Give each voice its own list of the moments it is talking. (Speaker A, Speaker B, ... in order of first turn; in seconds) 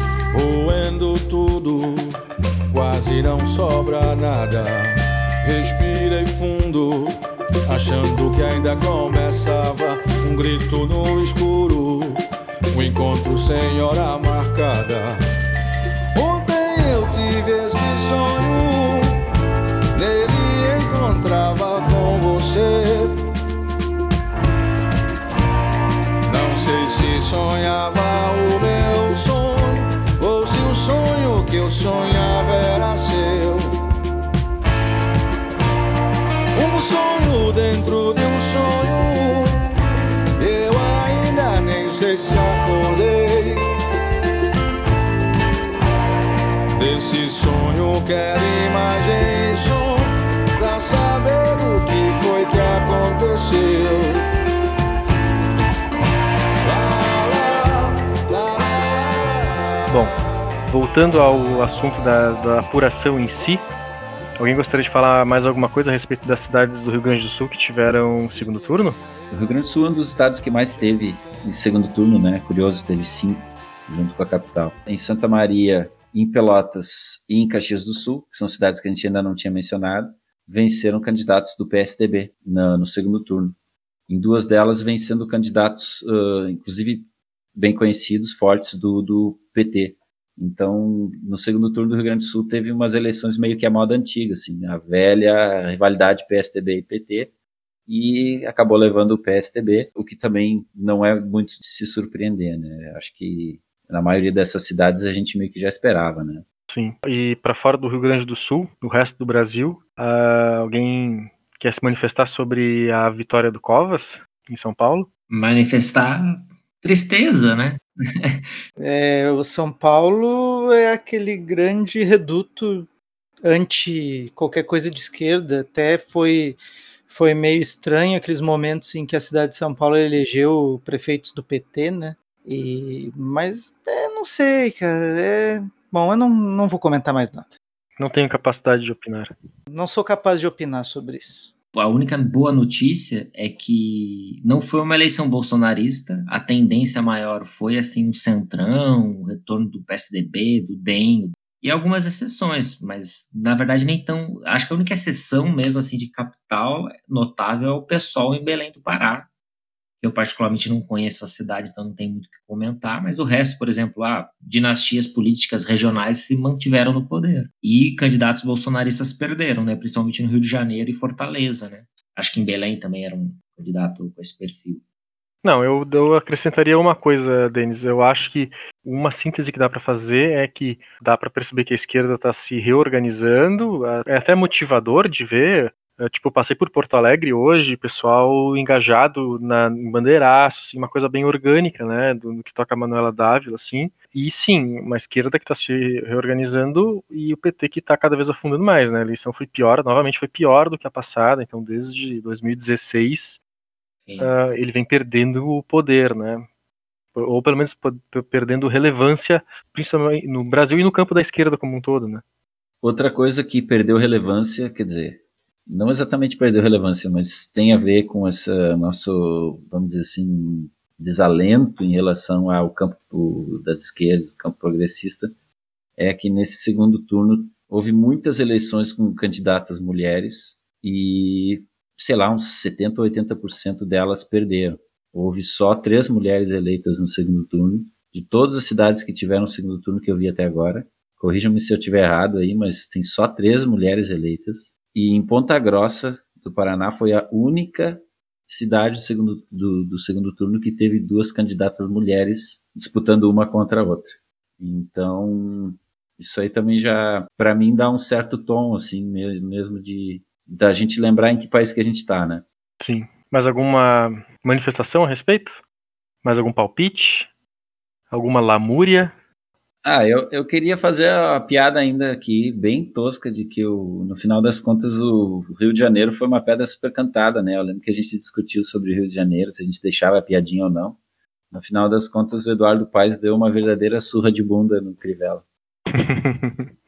Speaker A: 0.3-2.1, 2.7-7.1, 7.7-12.2, 12.7-15.2, 16.1-19.1, 19.9-23.1, 26.2-33.7, 36.5-39.5, 40.4-43.6, 46.8-50.0, 50.5-54.2, 56.6-59.5
Speaker B: 59.9-63.6, 64.4-69.0, 106.7-115.1, 138.0-139.3, 175.4-203.4, 204.2-206.4, 207.1-212.2, 262.8-265.6, 266.2-267.3, 268.1-269.1, 285.9-286.7
Speaker C: 69.3-83.5, 84.1-97.3, 97.9-106.4, 212.8-225.3, 226.0-262.4, 269.8-281.0, 281.5-285.4
Speaker D: 115.3-118.6, 141.7-159.3, 160.0-174.8
Speaker E: 118.8-122.9, 123.4-137.5, 139.7-141.5